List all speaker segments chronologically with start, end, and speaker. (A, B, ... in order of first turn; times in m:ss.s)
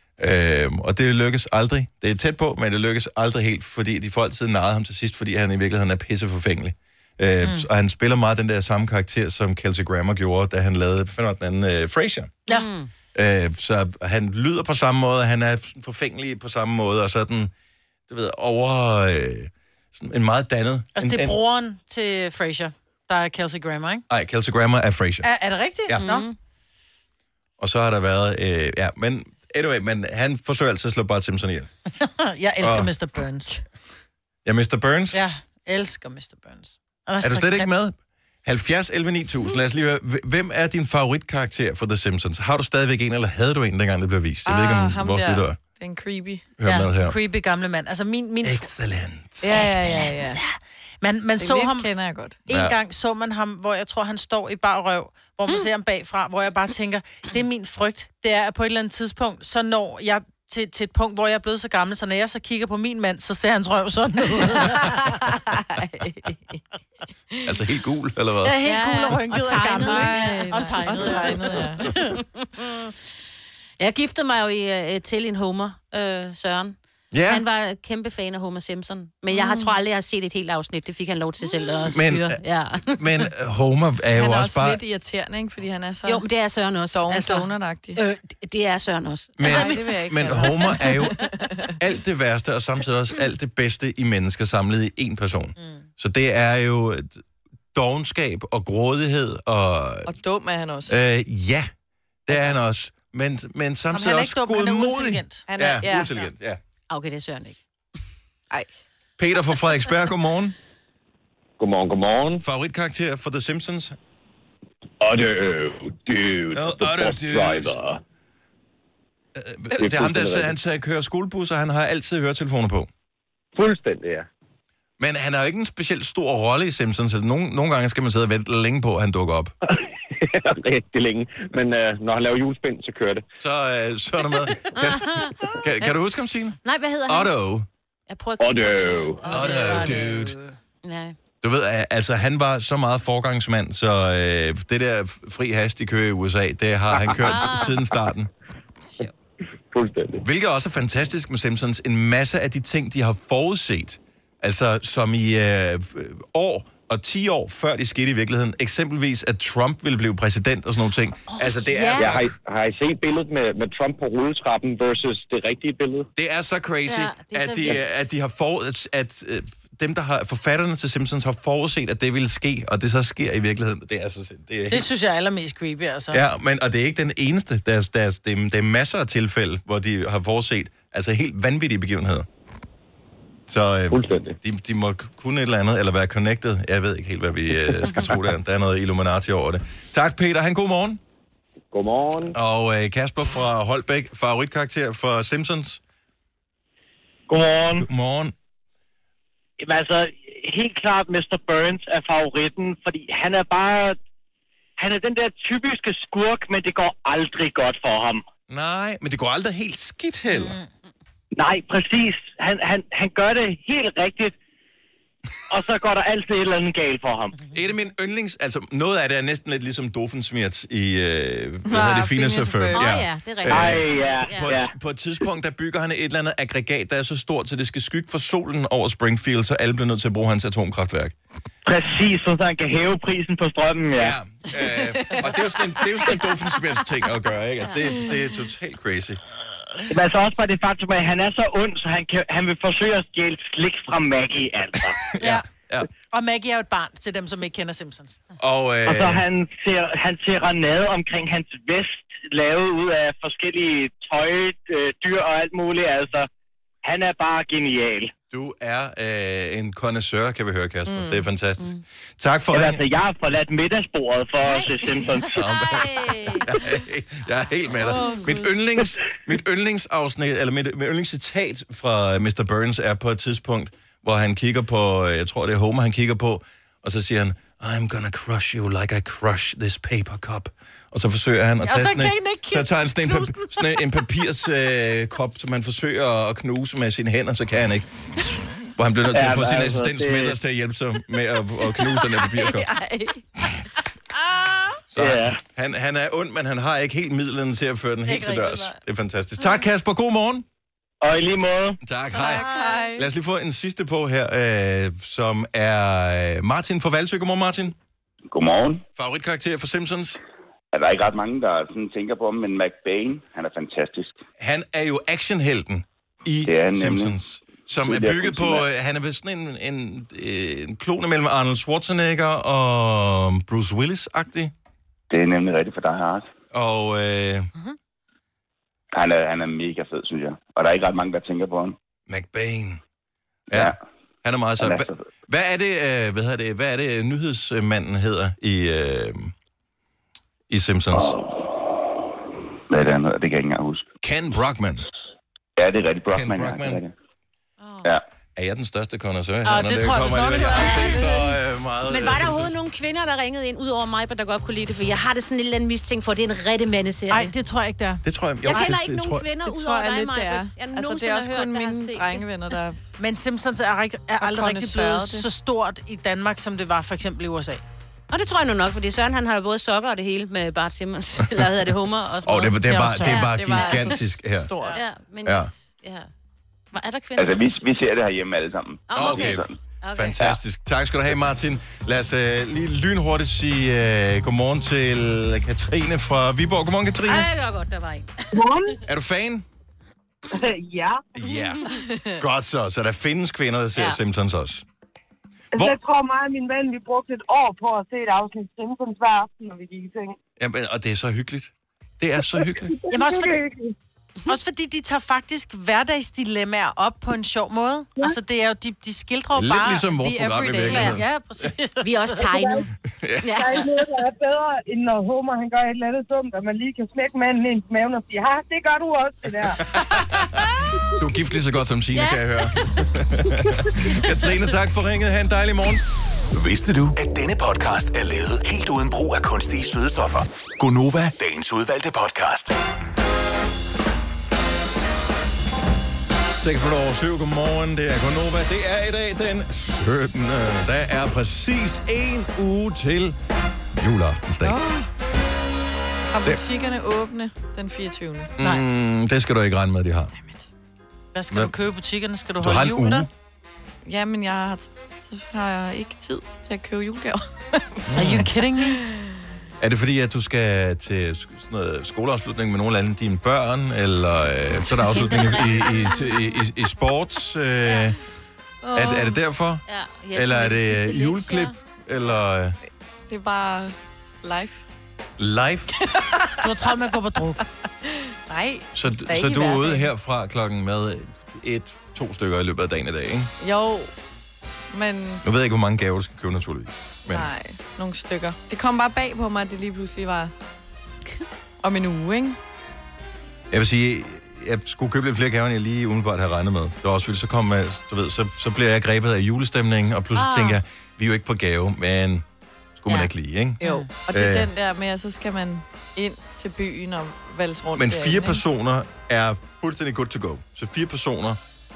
0:00.2-0:12.4 A
0:07.4-0:07.7 B
0:12.5-0:12.9 C
0:13.1-0:17.5 A
0:18.1-0:21.4 A
0:21.0-0:24.0 B
0:24.1-0:25.3 A
0:25.2-0:26.3 B
0:26.0-0:26.4 C
0:27.6-0:31.7 A
0:32.0-0:33.6 B
0:32.6-0:32.9 A
0:34.4-0:35.2 A
0:35.1-0:37.7 B
0:37.2-0:45.6 A
0:44.5-0:46.5 D
0:46.6-0:47.2 A
0:46.7-0:48.7 B
0:48.4-0:49.6 A
0:49.4-0:50.4 D
0:49.5-0:51.9 B
0:51.4-0:52.4 D
0:52.5-1:05.0 B
0:52.5-0:52.8 A
1:04.6-1:06.6 D
1:07.4-1:08.6 A
1:08.4-1:12.2 B
1:08.6-1:11.6 C
1:09.8-1:11.9 D
1:12.4-1:12.9 C
1:13.8-1:16.8 C
1:17.1-1:17.4 A
1:17.3-1:23.3 C
1:19.3-1:19.8 D
1:21.9-1:24.8 A
1:24.1-1:26.2 D
1:26.1-1:30.9 C
1:26.9-1:28.0 D
1:29.4-1:31.2 A
1:29.4-1:31.8 D
1:31.8-1:37.2 A
1:35.6-1:35.8 B
1:37.7-1:40.1 A
1:40.1-1:41.0 D
1:40.9-1:41.7 A
1:42.3-1:46.6 A
1:43.9-1:45.5 B
1:45.5-1:46.1 D
1:46.9-1:47.6 C
1:49.2-1:50.6 A
1:51.6-1:52.4 E
1:52.4-1:54.0 A
1:55.0-1:58.0 E
1:56.5-1:57.8 A
1:59.4-2:02.9 A
1:59.8-2:00.5 E
2:03.6-2:04.3 E
2:05.0-2:09.5 A
2:10.2-2:13.2 E
2:13.4-2:17.7 A
2:14.7-2:16.0 C
2:16.6-2:17.3 C
2:18.1-2:20.1 C
2:18.4-2:19.3 E
2:19.3-2:20.4 A
2:19.3-2:20.6 B
2:20.8-2:21.2 C
2:21.4-2:28.3 A
2:27.2-2:27.8 C
2:29.7-2:30.2 E
2:30.2-2:42.3 A
2:41.7-2:42.2 C
2:42.0-2:46.1 E
2:46.2-2:54.9 A
2:46.9-2:47.8 C
2:54.7-2:56.2 B
2:56.1-3:02.3 A
3:03.5-3:11.0 A
3:03.9-3:04.4 E
3:11.7-3:12.4 E
3:12.3-3:15.8 A
3:17.3-3:17.9 F
3:17.7-3:18.3 A
3:19.6-3:24.0 F
3:24.8-3:28.2 F
3:28.5-3:30.6 A
3:30.3-3:30.7 B
3:31.3-3:34.4 F
3:35.5-3:37.4 F
3:37.5-3:51.2 A
3:41.7-3:42.9 D
3:42.7-3:44.5 C
3:43.5-3:44.7 F
3:51.7-3:54.1 F
3:53.9-3:59.2 A
3:54.7-3:55.3 D
3:59.9-4:05.0 F
4:05.0-4:05.9 A
4:06.1-4:08.2 B
4:08.4-4:09.2 A
4:08.9-4:16.3 F
4:16.8-4:18.1 F
4:18.3-4:22.8 A
4:20.9-4:21.3 D
4:22.5-4:25.3 F
4:24.4-4:26.6 C
4:25.2-4:48.0 A
4:27.8-4:28.4 C
4:41.6-4:44.0 B
4:48.6-4:52.7 A
4:49.1-4:50.4 F
4:51.9-4:53.2 D
4:54.9-5:00.4 A
4:55.0-4:55.4 F
4:58.1-4:58.8 B
5:01.0-5:01.8 F
5:01.8-5:07.8 A
5:02.2-5:03.1 D
5:08.3-5:08.8 G
5:09.0-5:10.2 A
5:10.7-5:14.2 G
5:14.4-5:24.5 A
5:16.5-5:17.2 G
5:17.8-5:18.7 G
5:25.1-5:26.3 G
5:26.5-5:27.5 A
5:28.9-5:31.8 G
5:32.1-5:32.8 A
5:33.5-5:33.8 G
5:33.5-5:39.3 A
5:34.6-5:35.0 G
5:40.5-5:41.2 A
5:40.9-5:41.2 G
5:42.7-5:43.9 G
5:44.0-5:44.9 A
5:45.6-5:46.9 G
5:46.1-5:46.8 A
5:47.6-5:47.9 C
5:48.4-5:52.6 A
5:49.4-5:51.1 B
5:50.6-5:51.0 C
5:51.9-5:57.3 C
5:57.1-5:58.0 B
5:58.0-5:59.3 A
5:58.4-6:02.2 C
5:59.4-6:02.8 D
6:03.0-6:07.6 B
6:04.2-6:05.3 D
6:08.1-6:14.0 C
6:12.2-6:14.5 A
6:12.6-6:13.3 B
6:13.2-6:14.8 D
6:14.7-6:16.1 C
6:15.2-6:15.5 A
6:16.7-6:17.4 C
6:17.2-6:19.5 G
6:18.9-6:20.4 C
6:18.9-6:27.3 A
6:27.0-6:28.5 C
6:28.3-6:28.8 H
6:28.8-6:29.4 A
6:30.3-6:31.1 H
6:31.1-6:34.6 A
6:31.7-6:32.2 D
6:35.5-6:40.2 H
6:40.4-6:42.8 A
6:42.4-6:43.7 H
6:42.9-6:43.4 B
6:44.3-6:52.3 B
6:49.4-6:51.5 A
6:50.7-6:51.0 C
6:51.8-6:52.7 C
6:52.3-6:52.7 H
6:52.9-6:53.4 A
6:53.2-6:53.7 C
6:53.4-6:59.8 H
6:59.8-7:00.4 A
7:01.0-7:05.8 A
7:01.9-7:02.8 C
7:06.3-7:12.6 I
7:16.4-7:23.2 A
7:23.7-7:24.6 A
7:24.4-7:24.9 D
7:26.1-7:28.3 D
7:28.4-7:30.1 A
7:30.2-7:30.5 D
7:31.1-7:33.1 B
7:32.4-7:33.1 A
7:33.8-7:39.0 D
7:37.9-7:38.3 A
7:38.0-7:38.8 B
7:39.6-7:48.0 A
7:44.8-7:46.3 C
7:48.6-7:51.5 C
7:48.7-7:52.6 A
7:53.1-7:54.6 D
7:55.2-7:55.8 A
7:55.8-7:56.5 D
7:56.4-7:57.4 B
7:57.8-7:59.9 D
7:58.7-8:03.3 A
8:03.4-8:03.9 D
8:04.7-8:05.2 D
8:05.2-8:07.3 A
8:07.1-8:10.3 D
8:11.6-8:12.4 D
8:13.5-8:22.2 A
8:20.1-8:20.6 C
8:22.8-8:24.5 A
8:23.6-8:23.9 B
8:23.6-8:28.4 D
8:27.8-8:31.4 A